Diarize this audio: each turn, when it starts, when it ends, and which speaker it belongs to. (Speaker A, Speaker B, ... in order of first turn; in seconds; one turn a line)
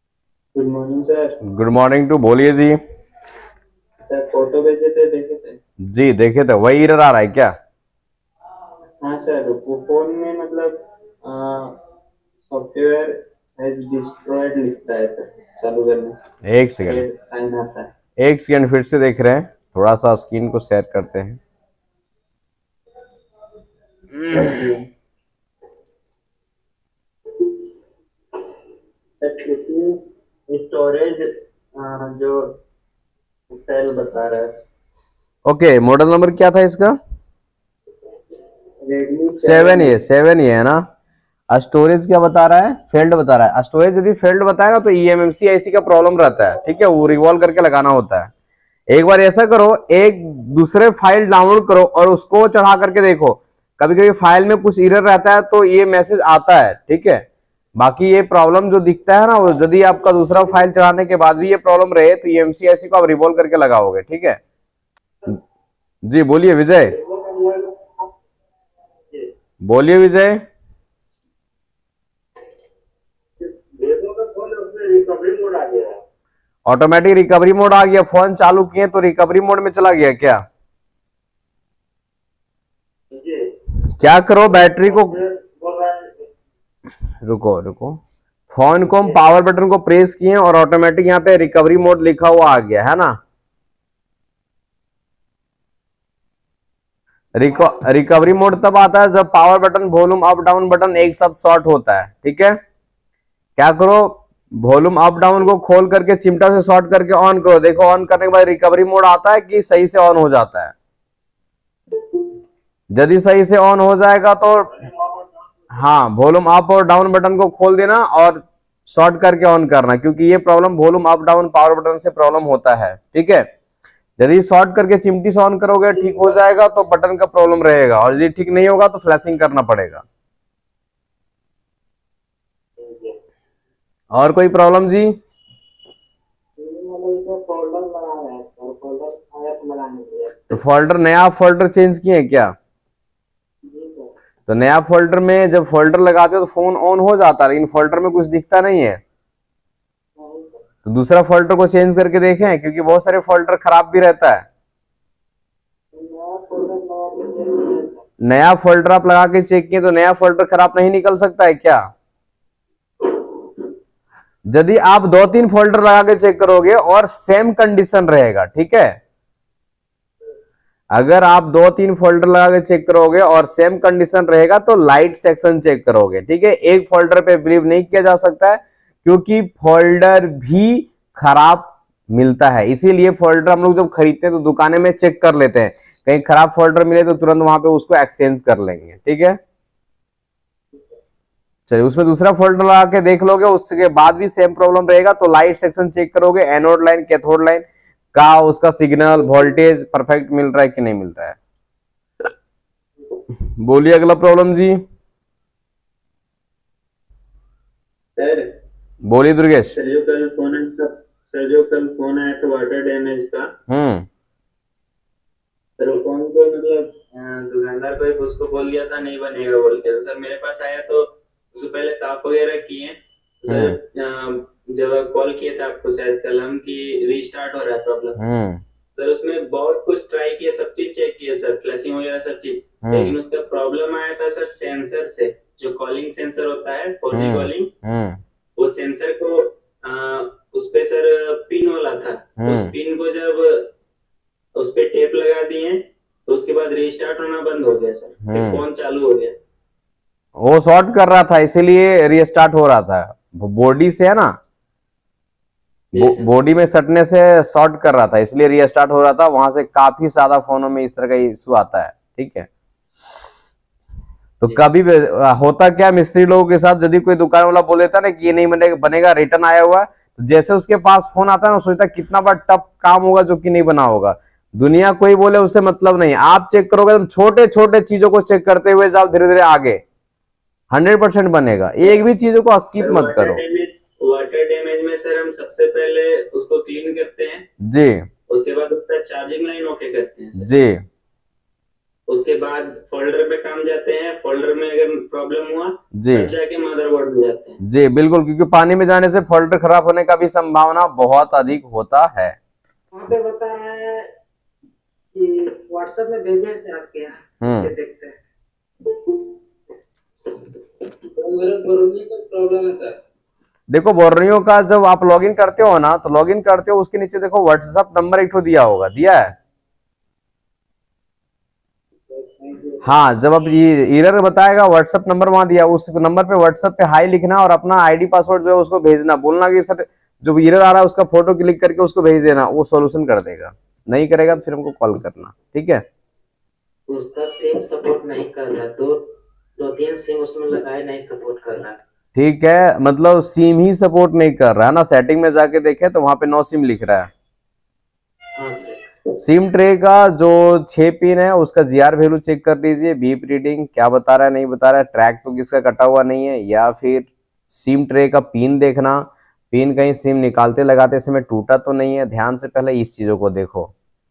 Speaker A: 0.5-1.4
Speaker B: 1.5-2.8
Speaker A: 4.1-5.6
Speaker B: 5.9-7.5
Speaker A: 9.0-11.7
Speaker A: 12.5-16.2
Speaker B: 16.4-17.0
Speaker A: 16.8-17.9
Speaker B: 18.2-21.4
Speaker B: 24.1-24.6
Speaker A: 24.3-24.9
Speaker A: 29.2-31.2
Speaker A: 31.7-32.5
Speaker A: 33.5-34.5
Speaker B: 35.5-36.9
Speaker A: 38.8-40.0
Speaker B: 39.4-40.8
Speaker B: 41.5-48.3
Speaker B: 48.9-57.2
Speaker B: 57.8-64.4
Speaker B: 66.0-66.9
Speaker C: 66.9-67.7
Speaker B: 69.6-70.4
Speaker C: 73.7-75.9
Speaker B: 76.7-80.4
Speaker B: 84.0-85.2
Speaker C: 84.6-86.1
Speaker B: 87.2-88.0
Speaker B: 88.5-93.2
Speaker B: 97.4-102.5
Speaker B: 103.6-110.7
Speaker B: 112.9-114.8
Speaker B: 115.7-123.4
Speaker B: 124.2-130.0
Speaker C: 132.8-133.1
Speaker B: 134.1-135.2
Speaker C: 136.6-140.6
Speaker B: 140.5-142.5
Speaker C: 143.7-144.1
Speaker B: 144.5-149.0
Speaker C: 150.2-150.6
Speaker B: 150.8-154.4
Speaker C: 155.9-158.0
Speaker B: 158.2-161.8
Speaker B: 164.5-168.9
Speaker B: 170.9-189.4
Speaker B: 191.7-201.4
Speaker B: 203.6-204.8
Speaker A: 208.2-208.4
Speaker B: 209.1-209.7
Speaker A: 209.7-213.5
Speaker B: 213.7-214.1
Speaker A: 215.8-221.0
Speaker A: 221.5-228.2
Speaker B: 223.5-223.7
Speaker B: 228.2-228.6
Speaker A: 229.0-237.7
Speaker B: 232.8-233.1
Speaker B: 237.1-238.2
Speaker A: 238.6-243.7
Speaker B: 242.4-242.7
Speaker A: 244.6-249.3
Speaker B: 248.2-248.6
Speaker B: 250.4-254.3
Speaker A: 255.9-256.3
Speaker B: 256.0-262.5
Speaker B: 264.4-279.8
Speaker B: 280.7-283.4
Speaker A: 282.8-287.4
Speaker B: 287.7-287.9
Speaker A: 288.3-290.5
Speaker B: 290.4-290.8
Speaker A: 292.1-297.6
Speaker B: 296.0-296.3
Speaker B: 297.6-302.4
Speaker C: 302.9-304.1
Speaker C: 305.1-308.2
Speaker B: 307.4-307.7
Speaker C: 311.2-312.8
Speaker B: 313.7-319.3
Speaker C: 322.1-322.8
Speaker B: 322.8-335.8
Speaker C: 336.9-339.0
Speaker C: 339.6-341.8
Speaker B: 342.1-347.1
Speaker C: 348.4-348.8
Speaker B: 349.2-363.7